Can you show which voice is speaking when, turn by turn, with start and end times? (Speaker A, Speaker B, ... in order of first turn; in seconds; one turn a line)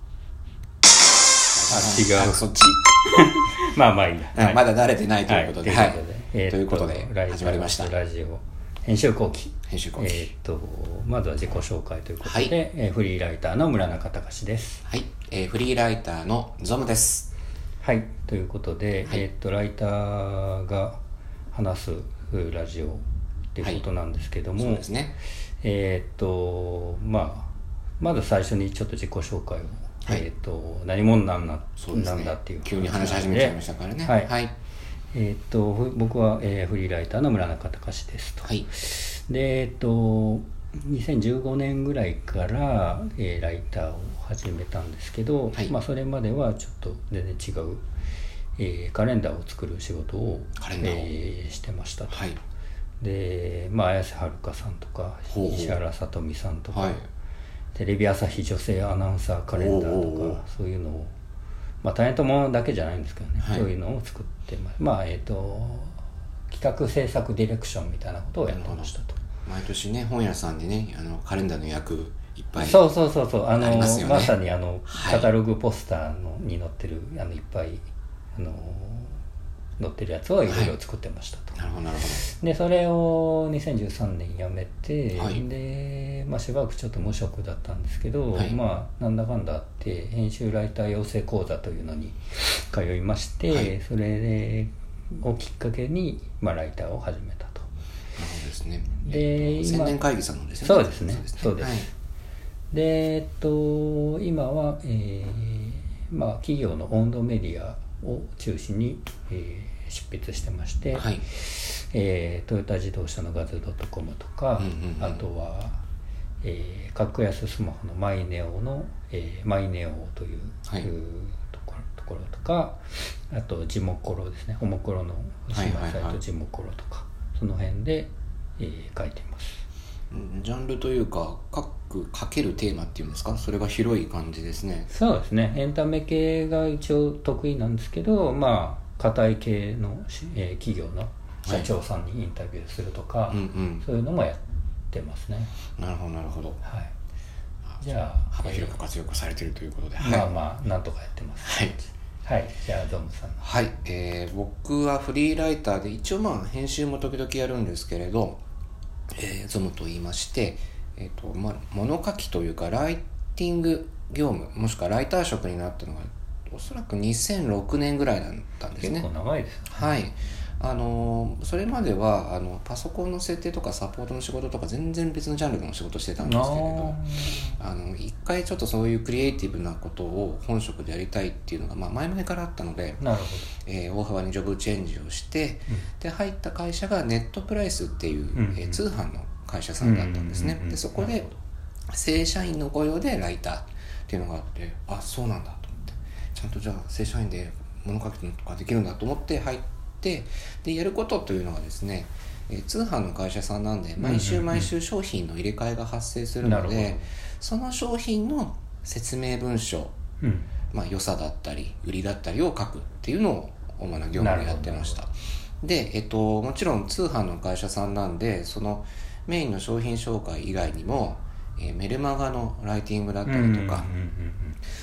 Speaker A: 1.5-2.9
Speaker B: 1.7-2.4
Speaker B: 3.1-4.6
Speaker A: 4.3-7.9
Speaker B: 5.2-14.8
Speaker A: 9.7-10.3
Speaker A: 12.2-12.5
Speaker A: 14.8-17.3
Speaker B: 17.8-21.0
Speaker B: 21.5-24.8
Speaker A: 24.6-25.1
Speaker B: 25.6-34.3
Speaker A: 31.8-34.5
Speaker B: 35.1-47.8
Speaker A: 38.4-38.7
Speaker B: 48.6-52.3
Speaker A: 50.6-51.1
Speaker A: 52.1-52.4
Speaker B: 53.0-57.0
Speaker A: 55.3-55.8
Speaker A: 56.7-57.0
Speaker B: 57.7-61.1
Speaker A: 59.5-60.4
Speaker B: 61.8-69.2
Speaker A: 63.4-63.6
Speaker A: 68.5-68.9
Speaker A: 69.4-72.8
Speaker B: 72.5-79.2
Speaker A: 73.6-74.3
Speaker A: 74.9-75.3
Speaker B: 79.8-81.6
Speaker A: 80.5-80.7
Speaker A: 81.5-82.3
Speaker B: 82.2-97.7
Speaker A: 85.1-85.4
Speaker A: 98.2-101.9
Speaker B: 99.0-100.0
Speaker B: 100.6-101.9
Speaker B: 102.7-115.8
Speaker A: 110.9-111.2
Speaker A: 114.6-115.2
Speaker B: 116.4-129.6
Speaker A: 125.5-126.2
Speaker A: 130.1-134.9
Speaker B: 134.9-145.5
Speaker A: 143.3-143.8
Speaker A: 145.8-146.6
Speaker B: 146.6-146.9
Speaker A: 147.7-150.3
Speaker B: 147.8-148.8
Speaker B: 150.0-153.4
Speaker A: 151.4-151.7
Speaker A: 153.4-158.4
Speaker A: 159.1-169.1
Speaker B: 168.8-169.9
Speaker A: 169.7-183.0
Speaker B: 176.2-177.6
Speaker B: 183.0-183.5
Speaker A: 183.6-191.3
Speaker B: 188.3-188.8
Speaker B: 189.8-191.3
Speaker A: 191.9-209.9
Speaker B: 204.0-204.7
Speaker B: 206.4-207.1
Speaker B: 210.2-210.5
Speaker A: 210.7-223.9
Speaker B: 214.2-215.0
Speaker B: 223.2-224.6